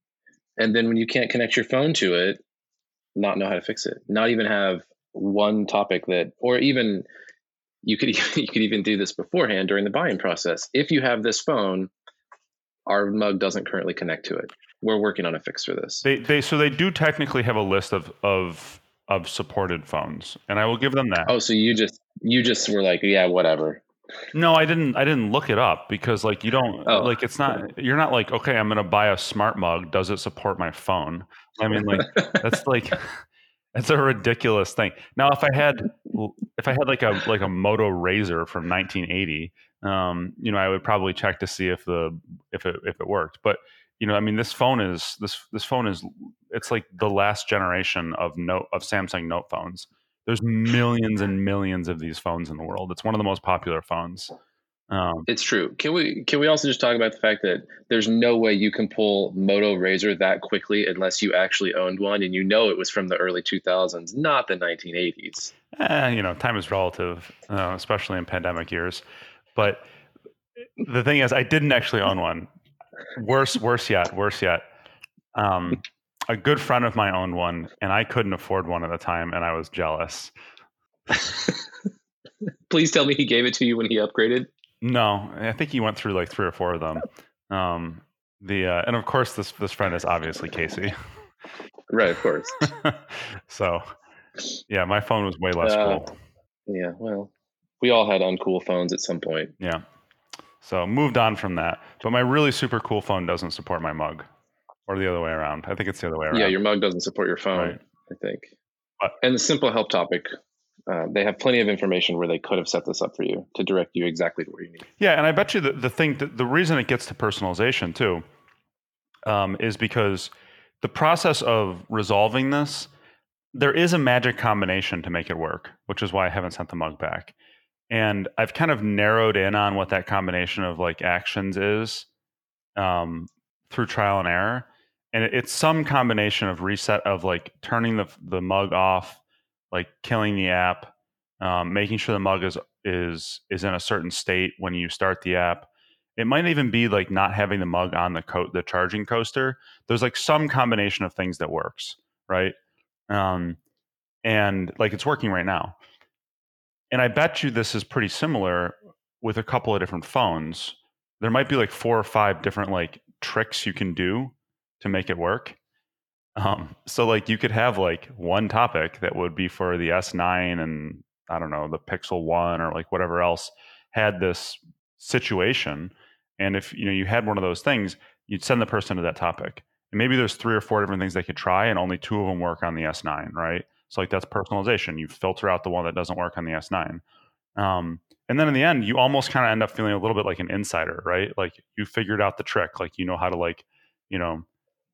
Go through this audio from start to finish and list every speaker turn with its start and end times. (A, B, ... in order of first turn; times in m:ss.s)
0:00.6-0:02.4 A
0:03.2-0:07.0 A
0:07.8-0:11.9 A
0:12.8-0:16.0 A
0:16.0-0:21.3 B
0:21.3-0:23.8 A
0:24.3-0:54.3 B
0:26.8-0:27.2 A
0:32.0-0:32.4 A
0:54.9-0:55.3 B
0:55.3-1:05.5 A
1:05.7-1:09.0 B
1:09.5-1:09.8 B
1:10.8-1:12.5 B
1:13.2-1:14.6 B
1:15.3-1:20.3 B
1:21.1-1:21.6 A
1:22.7-1:24.5 A
1:24.8-1:30.9 B
1:31.9-1:32.6 A
1:32.6-1:33.8 B
1:34.7-1:36.1 B
1:35.6-1:36.0 A
1:36.7-1:39.5 A
1:40.6-1:44.2 B
1:44.9-1:46.5 B
1:46.3-1:48.5 A
1:49.2-1:50.3 A
1:50.9-1:54.8 A
1:55.0-1:58.2 B
1:59.2-2:02.9 B
2:03.5-2:07.3 B
2:07.9-2:12.1 B
2:12.8-2:19.2 B
2:19.7-2:32.5 B
2:33.1-2:33.6 B
2:34.2-2:35.8 B
2:36.9-2:45.6 B
2:46.4-3:07.0 B
3:07.6-3:14.4 B